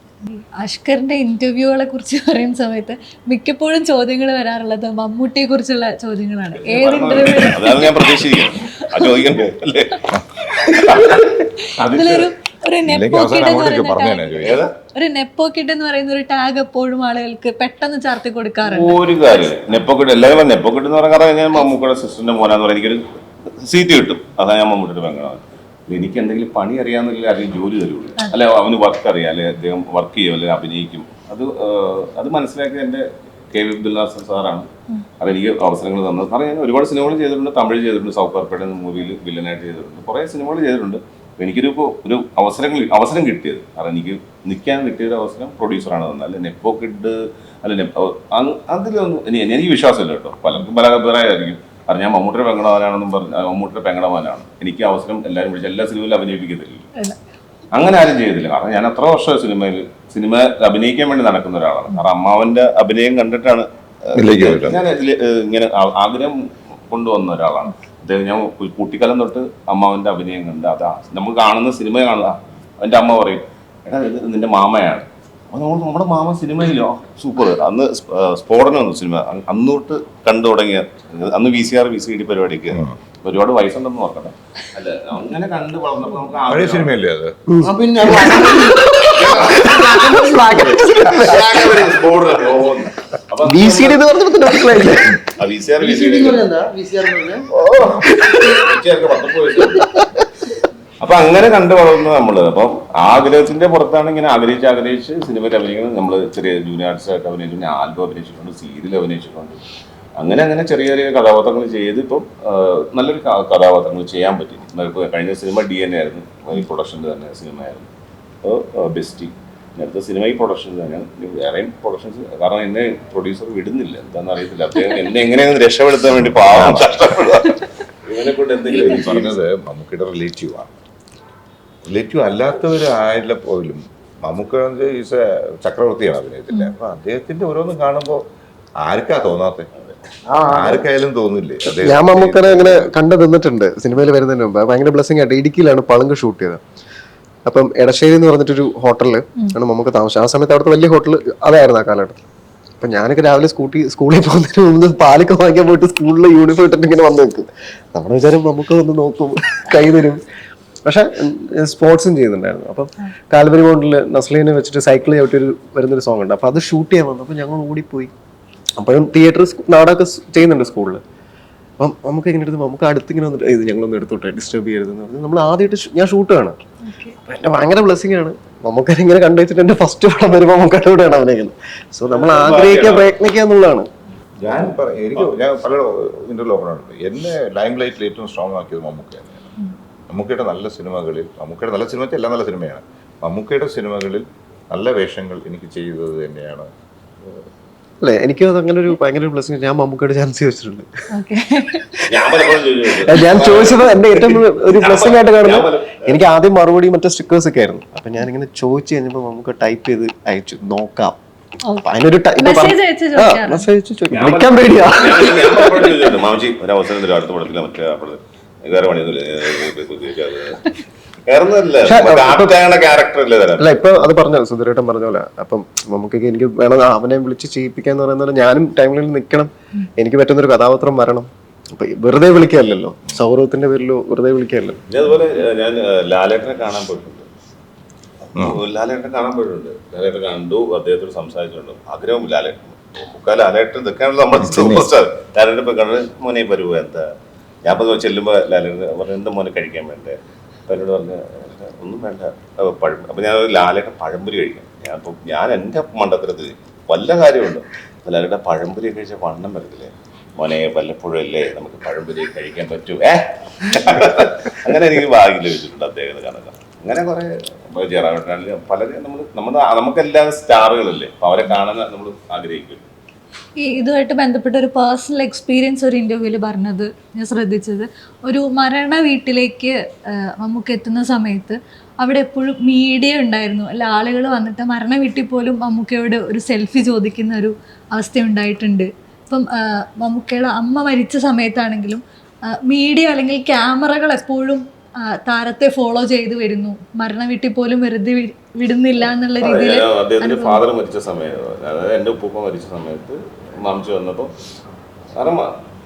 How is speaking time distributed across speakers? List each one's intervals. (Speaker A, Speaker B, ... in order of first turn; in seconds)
Speaker A: 0.2-8.3, 11.2-19.1, 176.8-177.2, 201.1-201.9, 211.6-213.7, 273.6-300.6
Speaker B: 6.6-11.3, 11.9-12.2, 14.4-14.7, 18.6-34.7, 35.2-56.9, 57.7-86.9, 89.1-89.8, 91.0-94.0, 95.4-96.4, 98.5-99.9, 101.0-109.6, 110.2-117.9, 118.4-129.4, 182.1-183.1, 202.0-206.2, 214.1-220.7, 221.3-223.9, 234.9-237.3, 238.3-272.9, 299.4-304.3, 305.1-305.6
Speaker C: 10.8-11.2, 11.8-12.2, 12.8-14.7, 64.2-64.8, 82.7-83.0, 86.5-87.4, 126.1-127.0, 128.7-130.8, 131.8-138.2, 138.8-139.7, 140.4-142.9, 184.4-189.5, 190.1-196.7, 238.3-238.6, 244.3-244.9
Speaker D: 87.5-91.5, 93.4-95.2, 97.5-98.6, 100.0-100.2, 141.6-146.6, 147.5-152.2, 152.8-160.2, 160.8-168.1, 168.8-171.0, 171.8-176.6, 177.2-183.9, 198.0-200.9, 203.0-211.2, 211.8-216.0, 221.8-222.6, 223.6-234.8
Speaker E: 87.6-91.1, 95.8-97.5, 140.3-140.8